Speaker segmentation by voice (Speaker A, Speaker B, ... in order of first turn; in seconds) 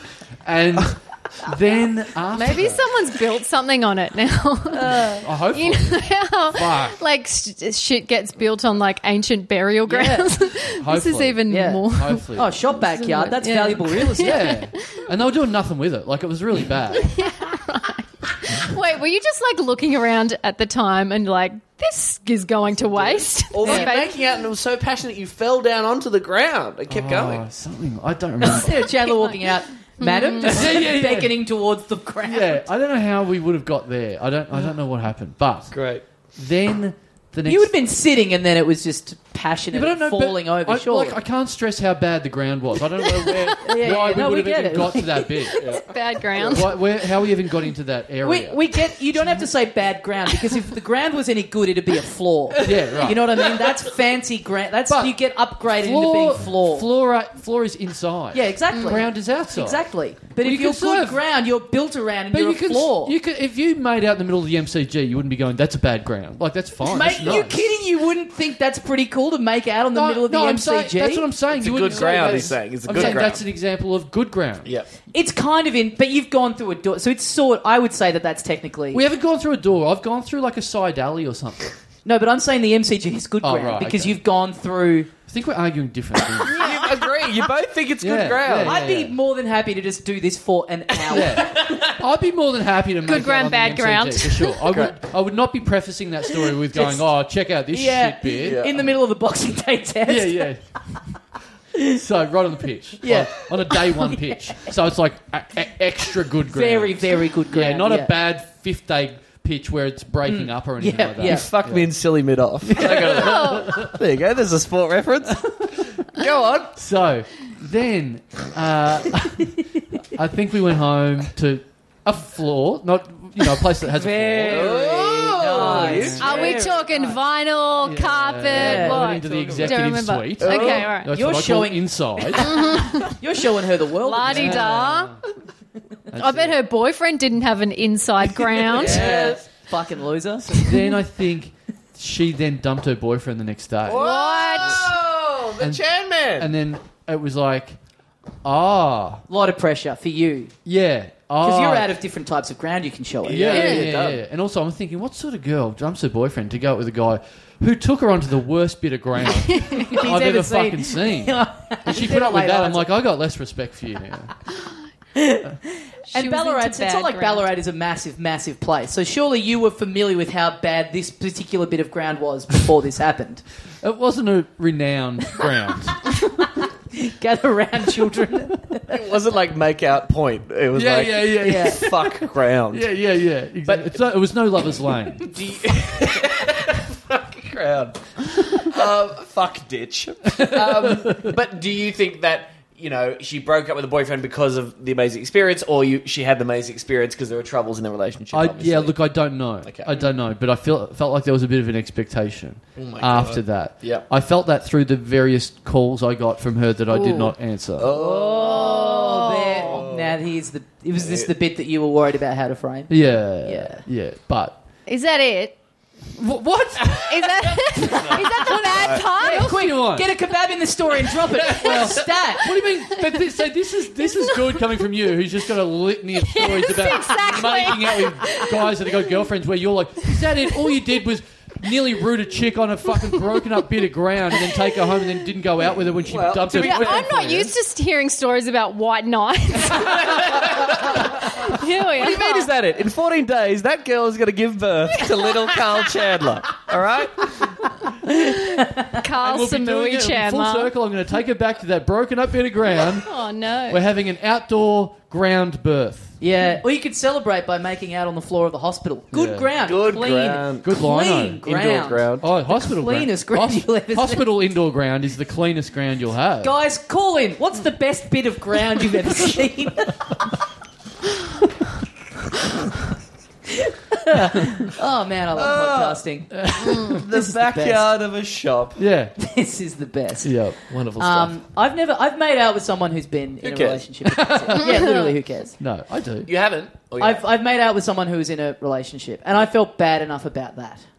Speaker A: 0.4-2.8, 5.2-7.0, 10.6-12.5, 14.2-17.2, 26.9-28.9, 30.4-31.4, 32.2-35.7, 36.3-37.7, 39.7-45.8, 46.4-48.6, 49.1-49.5, 52.6-53.4, 54.9-59.9, 60.4-61.2, 62.3-67.6, 69.9-74.7, 78.9-81.7, 83.4-84.2, 85.2-86.7, 88.0-89.1, 91.1-98.8, 100.0-101.0, 101.8-111.9, 112.6-114.0, 115.3-115.9, 116.7-124.9, 125.5-126.5, 127.8-132.8, 134.2-135.2, 136.1-136.6, 140.4-144.1, 145.6-147.8, 148.4-149.2, 150.7-151.9, 153.3-164.3, 173.8-176.1, 180.7-185.3, 190.3-191.3, 198.3-207.9, 212.9-214.6, 216.2-220.1, 221.2-237.5, 239.8-241.0, 249.2-253.1, 253.7-256.2, 259.1-259.5, 260.6-261.4, 262.2-266.5, 276.3-277.0, 278.8-279.1, 280.2-280.7, 284.0-284.9, 285.6-286.3
Speaker B: 2.3-15.1, 16.9-24.2, 29.1-30.7, 45.6-46.8, 58.7-59.0, 86.4-87.1, 93.0-94.6, 113.0-113.7, 126.2-131.1, 132.4-133.1, 134.0-135.1, 136.1-139.2, 143.9-144.9, 153.5-153.9, 159.5-159.9, 166.1-167.4, 206.9-207.3, 208.4-209.8, 214.9-215.6, 216.9-219.6, 222.4-223.3, 224.0-224.7, 226.2-229.0, 236.5-242.5, 245.1-245.6, 248.0-250.7, 252.9-253.8, 284.6-285.1
Speaker C: 4.7-5.2, 9.9-10.3, 11.5-14.6, 23.6-24.0, 28.4-32.6, 37.4-41.2, 43.6-45.5, 48.2-56.9, 58.3-63.1, 66.8-71.3, 72.0-72.4, 72.9-73.3, 75.1-79.0, 82.0-85.1, 88.6-91.6, 96.7-97.1, 97.7-100.5, 103.0-104.3, 106.5-108.1, 110.2-111.5, 123.9-127.2, 128.5-129.1, 130.9-134.8, 138.7-140.7, 149.3-150.5, 151.4-153.8, 159.7-162.9, 165.1-173.4, 176.6-179.0, 181.4-181.8, 207.9-213.8, 219.1-222.5, 248.1-249.0, 256.2-264.2, 266.4-270.2, 273.6-277.9, 279.2-285.5, 287.0-290.8
Speaker D: 22.8-27.4, 35.7-36.0, 45.6-46.6, 52.6-53.5, 67.0-67.6, 71.5-73.4, 86.5-88.8, 91.1-91.9, 94.7-94.9, 98.4-98.8, 111.2-116.8, 124.5-126.7, 128.7-129.8, 130.4-130.9, 138.7-139.4, 143.8-146.5, 153.2-154.2, 178.9-182.8, 185.2-198.9, 199.6-200.1, 202.8-204.1, 207.8-210.2, 211.0-211.3, 217.9-219.0, 236.0-237.3, 239.7-247.6, 259.6-260.7, 261.4-262.2, 275.3-276.0, 276.6-278.8, 280.7-281.3, 283.4-283.9, 286.2-287.2